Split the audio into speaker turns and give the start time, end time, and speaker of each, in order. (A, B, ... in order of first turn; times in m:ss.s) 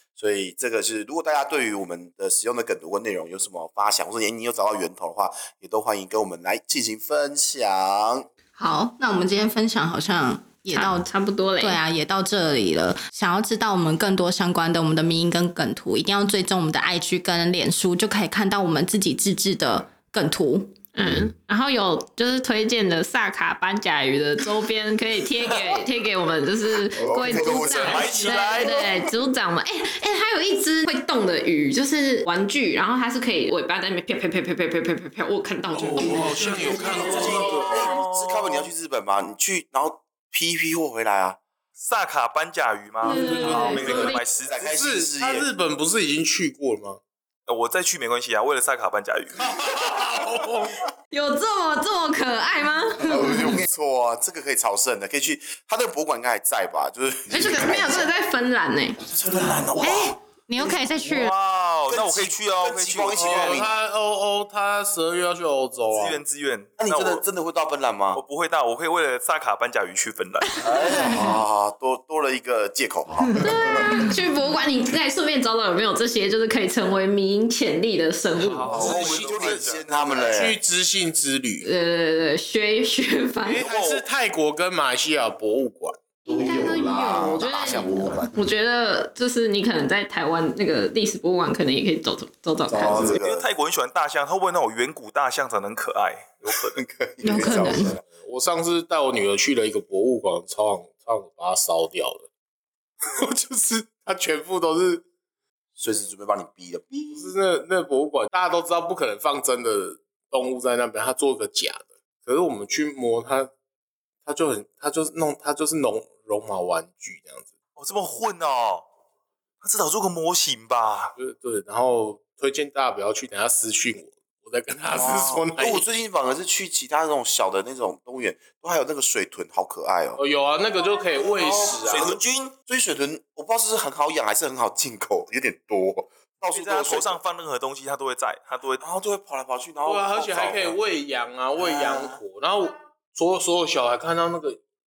0:00.2-0:08.3 A
0:08.6-0:11.1 B
0:10.7-0:11.8 C
0:11.6-0:20.7 B
0:20.9-0:37.2 C
0:26.9-0:28.8 A
0:27.4-0:28.4 D
0:27.6-0:28.8 E
0:35.8-0:38.7 E
0:35.8-0:37.7 D
0:36.5-0:41.4 A
0:41.8-0:44.6 E
0:43.0-0:44.2 C
0:43.1-0:47.0 D
0:43.4-0:45.5 A
0:47.5-0:49.8 E
0:49.4-0:50.9 D
0:51.1-0:53.4 C
0:53.0-0:58.1 A
0:57.3-0:59.0 C
0:59.0-1:00.9 A
0:59.8-1:01.3 B
1:01.0-1:03.7 E
1:01.9-1:03.7 A
1:03.2-1:06.2 D
1:05.9-1:07.2 E
1:06.8-1:08.2 A
1:08.1-1:10.6 E
1:10.6-1:14.0 A
1:13.4-1:18.8 C
1:13.6-1:14.1 B
1:18.3-1:19.8 E
1:18.6-1:21.7 D
1:18.6-1:20.6 A
1:21.6-1:23.6 C
1:23.4-1:24.0 E
1:23.6-1:26.0 D
1:26.2-1:28.3 A
1:26.3-1:33.2 C
1:32.7-1:33.5 A
1:33.1-1:36.8 E
1:36.4-1:38.0 A
1:37.2-1:38.0 B
1:37.3-1:42.3 D
1:43.0-1:45.0 D
1:45.8-1:47.3 A
1:47.1-1:53.5 D
1:54.2-1:57.5 D
1:57.8-1:58.9 E
1:59.6-2:01.1 E
2:01.1-2:05.8 D
2:04.9-2:10.2 A
2:10.2-2:12.1 D
2:11.1-2:17.2 A
2:11.8-2:12.5 E
2:16.5-2:18.8 E
2:18.8-2:20.8 A
2:19.8-2:24.6 D
2:21.6-2:22.2 A